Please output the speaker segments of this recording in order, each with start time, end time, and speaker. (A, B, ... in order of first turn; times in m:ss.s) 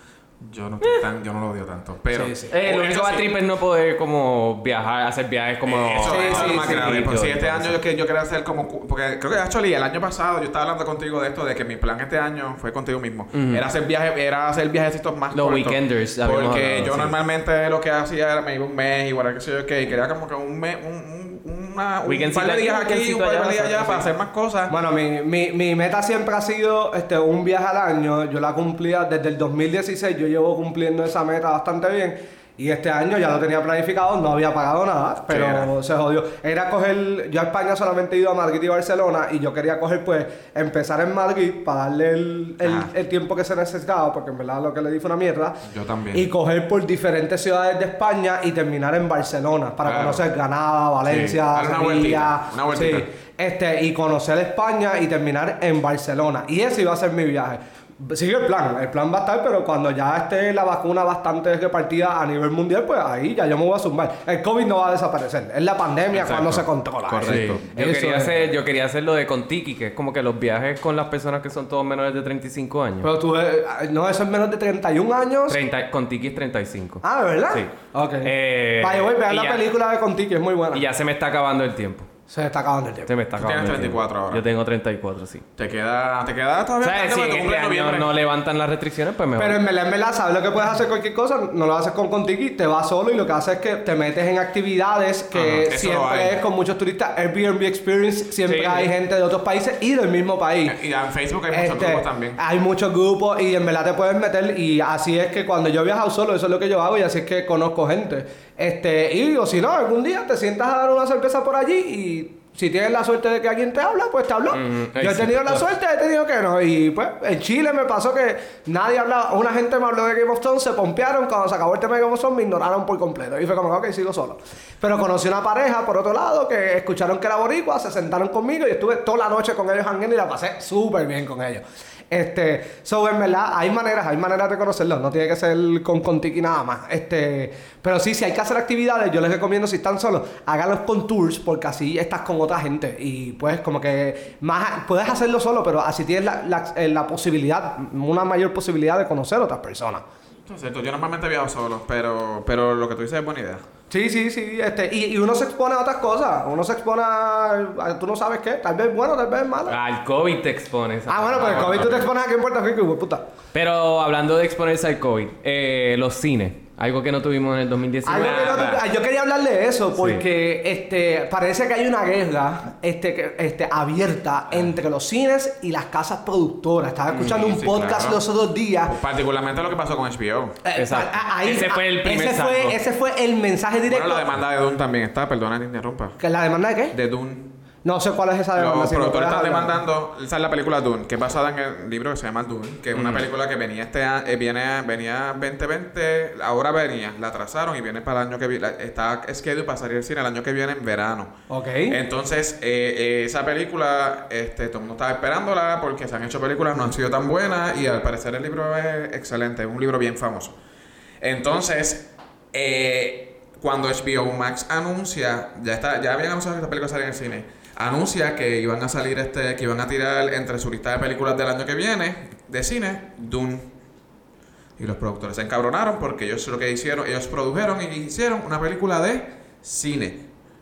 0:00.4-0:03.3 A
0:02.1-0:02.5 B
0:02.5-0:07.8 C
0:05.6-0:24.7 A
0:06.1-0:07.0 B
0:13.3-0:13.6 C
0:15.3-0:17.2 C
0:22.0-0:24.0 C
0:24.7-1:08.4 B
0:35.3-0:35.7 A
0:42.6-0:42.9 A
0:45.6-0:46.3 A
0:49.8-0:50.2 A
0:51.0-0:53.0 A
1:06.1-1:07.6 A
1:07.2-1:13.1 C
1:13.0-1:15.6 B
1:15.5-1:17.7 C
1:17.0-1:20.8 B
1:18.2-1:19.6 C
1:20.7-1:22.1 C
1:22.3-1:23.1 B
1:23.1-1:25.4 C
1:23.4-1:24.4 A
1:25.6-1:28.1 A
1:26.8-1:29.6 C
1:29.4-1:40.8 B
1:35.3-1:36.4 A
1:38.4-1:38.9 C
1:40.6-1:42.4 A
1:41.5-2:30.0 B
1:54.5-1:55.6 C
2:30.5-2:33.6 A
2:33.9-2:39.8 B
2:39.7-2:41.9 C
2:41.1-2:43.2 B
2:41.4-2:42.1 A
2:43.5-2:48.7 C
2:48.0-2:58.9 B
2:48.1-2:48.8 A
2:50.0-2:50.2 C
2:57.2-2:58.2 A
2:58.8-3:00.6 A
3:00.6-3:04.3 B
3:00.8-3:02.8 C
3:03.9-3:06.2 A
3:06.2-3:06.9 B
3:06.9-3:07.5 A
3:07.8-3:09.8 B
3:08.5-3:21.3 A
3:12.9-3:13.2 C
3:21.5-3:22.0 B
3:21.9-3:30.5 A
3:31.2-3:43.7 A
3:44.8-3:50.2 A